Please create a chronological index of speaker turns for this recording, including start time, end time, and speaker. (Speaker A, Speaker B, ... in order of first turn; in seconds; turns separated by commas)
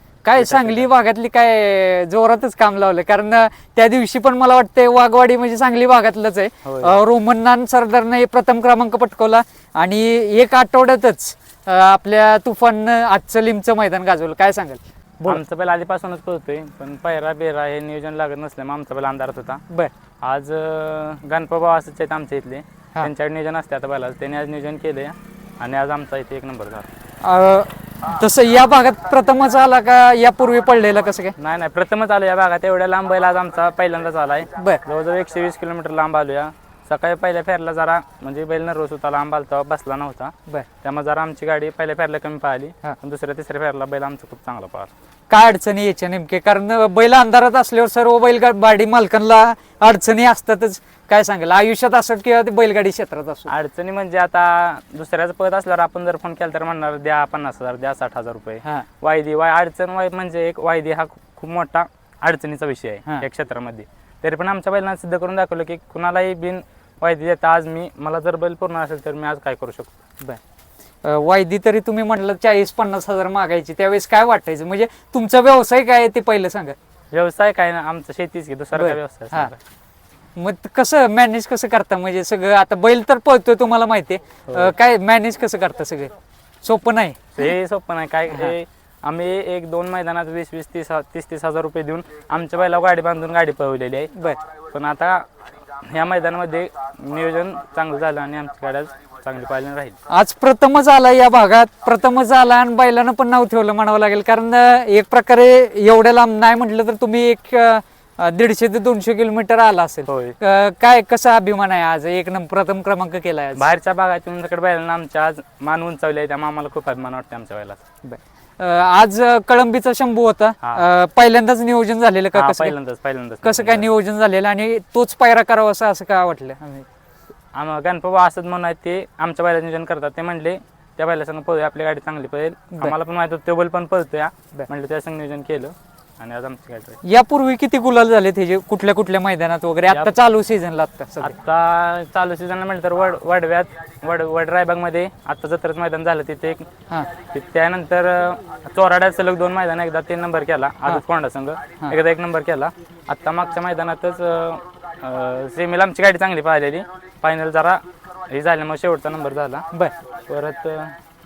Speaker A: 0.2-15.4, Speaker B: 0.3-0.9, Speaker B: 6.6-7.0, Speaker B: 15.2-19.6, Speaker B: 20.2-26.9, Speaker A: 27.2-31.3, Speaker B: 31.4-44.9, Speaker A: 34.5-34.8, Speaker A: 45.3-53.5, Speaker B: 53.5-69.9, Speaker A: 71.0-76.8, Speaker B: 77.1-79.6, Speaker A: 78.7-79.5, Speaker A: 80.4-87.4, Speaker B: 84.5-84.7, Speaker B: 87.3-94.1, Speaker B: 94.7-95.2, Speaker B: 95.8-100.0, Speaker A: 100.1-113.6, Speaker B: 110.1-110.4, Speaker B: 113.5-117.8, Speaker A: 118.0-122.7, Speaker B: 122.3-123.9, Speaker A: 123.4-126.8, Speaker B: 127.5-137.0, Speaker A: 137.0-141.3, Speaker B: 139.9-140.1, Speaker B: 141.2-146.7, Speaker B: 147.2-159.6, Speaker B: 160.3-160.9